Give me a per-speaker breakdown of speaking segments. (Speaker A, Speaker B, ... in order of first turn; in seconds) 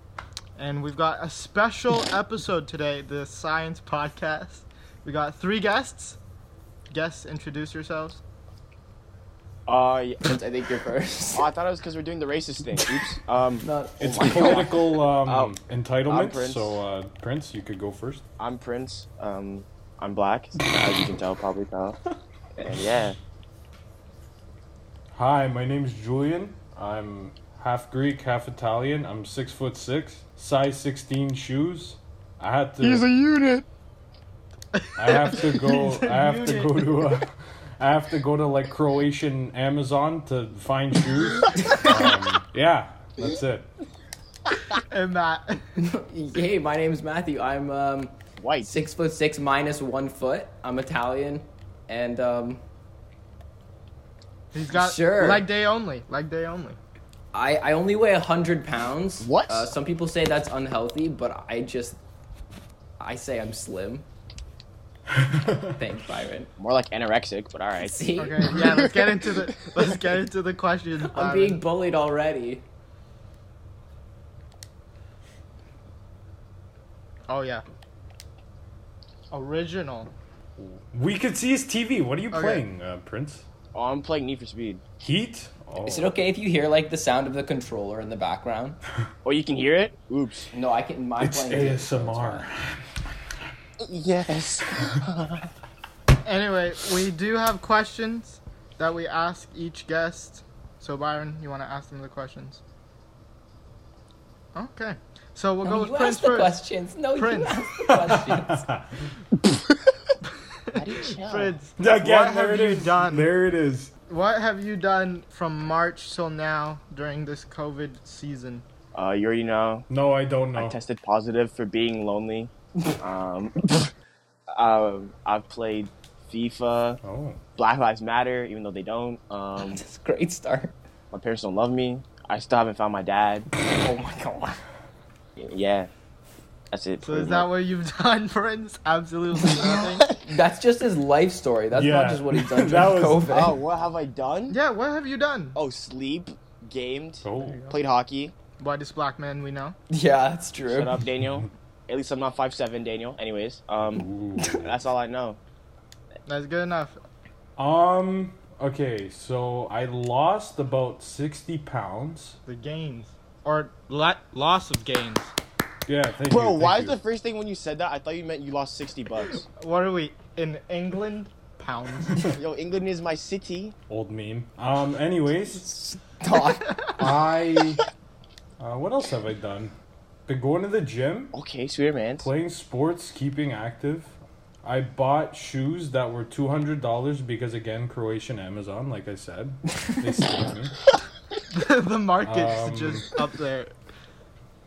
Speaker A: 0.6-6.2, 6.9-8.2, 34.7-37.0, 44.8-45.6, 54.5-56.8, 68.2-71.6, 77.3-77.6, 79.3-80.1, 82.3-82.6, 96.2-102.6, 104.5-106.6, 107.1-107.9, 110.7-113.3, 114.1-118.6, 137.0-140.1, 144.5-145.6, 147.4-147.8, 148.6-149.8, 156.2-157.0, 162.4-165.3, 169.5-172.3, 191.5-193.7
Speaker B: 9.7-10.2, 11.3-15.5, 16.1-16.7, 18.4-22.0, 22.6-23.1, 32.8-33.6, 48.4-48.7, 59.2-59.7, 66.6-69.3, 83.7-84.8, 89.2-90.5, 93.8-95.5, 110.7-111.5, 118.9-119.9, 120.5-123.9, 124.5-127.0, 127.6-129.8, 131.1-133.5, 135.4-135.9, 136.7-137.5, 143.3-144.6, 145.5-148.3, 150.7-155.4, 166.3-169.4, 172.3-173.8, 181.3-182.3
Speaker C: 10.2-11.5, 13.6-14.7, 45.8-52.6, 54.7-55.4, 57.3-62.0, 63.0-64.0, 65.7-66.5, 67.8-68.6, 71.0-72.6, 85.8-88.8, 90.5-92.5, 105.6-108.6, 129.6-130.7, 133.6-134.6, 140.2-143.6, 149.9-151.0, 175.6-176.8
Speaker D: 14.0-18.2, 25.1-33.0, 35.0-43.7, 65.1-65.7, 80.6-83.4, 85.0-86.1, 91.2-92.8, 107.9-109.0, 111.8-113.9, 119.9-120.8, 127.0-127.4, 141.7-143.3, 147.2-147.6, 153.9-154.9, 157.6-162.4, 165.9-167.0, 173.9-175.6, 177.0-177.8, 178.6-179.7, 180.3-181.3, 182.2-190.8, 192.2-193.1